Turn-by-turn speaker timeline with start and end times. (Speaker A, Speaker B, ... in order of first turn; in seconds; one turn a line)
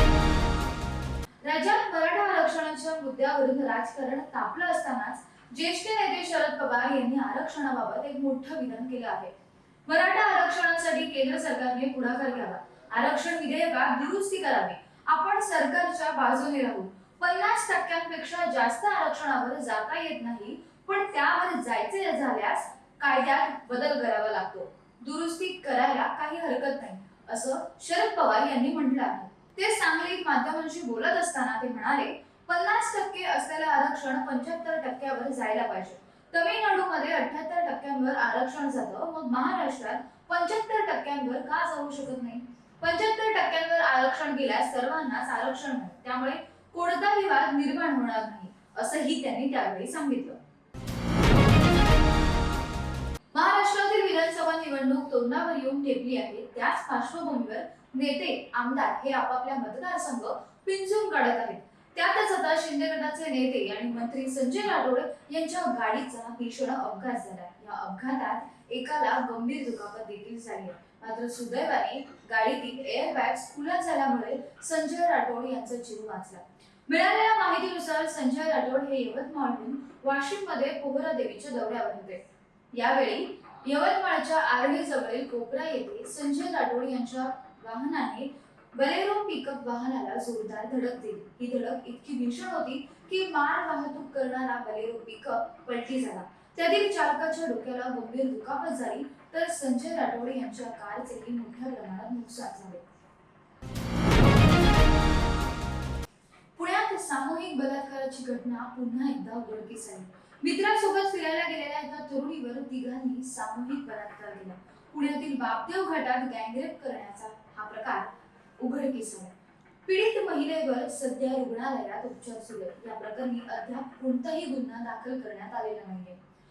Speaker A: 1.4-9.3
Speaker A: 9.8-50.4
Speaker A: 53.3-82.2
Speaker A: 82.7-102.8
Speaker A: 106.5-119.3
Speaker A: 119.8-126.2